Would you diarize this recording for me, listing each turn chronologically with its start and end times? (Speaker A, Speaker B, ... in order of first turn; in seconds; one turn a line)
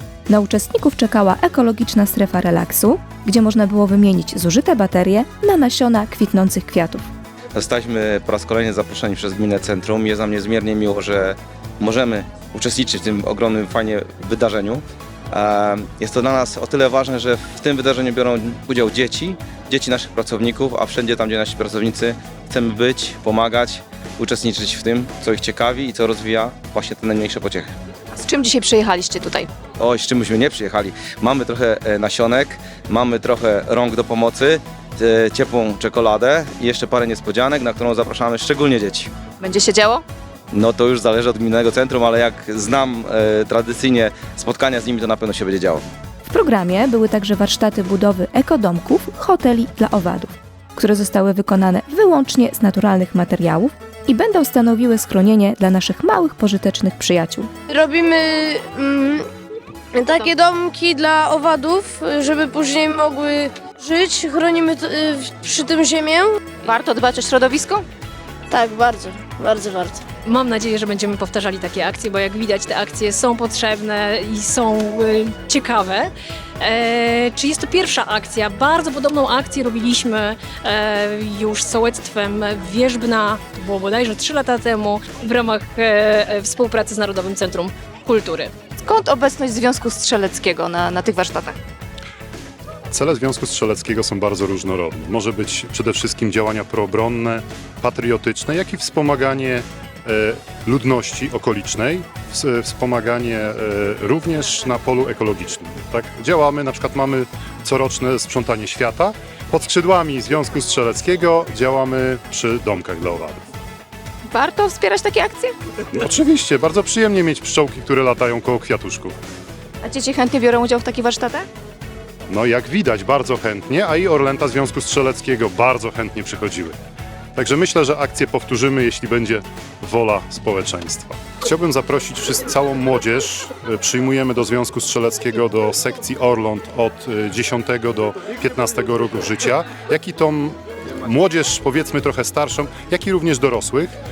Speaker A: 0.3-7.0
Speaker B: 7.5-27.7
Speaker C: 28.1-29.5
Speaker B: 29.8-39.1
Speaker C: 39.4-40.0
Speaker B: 40.5-45.8
Speaker A: 46.3-57.5
Speaker D: 57.7-59.3
Speaker D: 59.9-66.4
Speaker C: 66.6-67.8
Speaker D: 68.5-70.0
Speaker E: 70.2-88.5
Speaker C: 88.8-91.5
Speaker F: 92.9-113.4
Speaker C: 114.3-115.5
Speaker F: 116.0-119.2
Speaker C: 119.8-121.5
Speaker F: 122.3-126.8
Speaker F: 127.3-143.9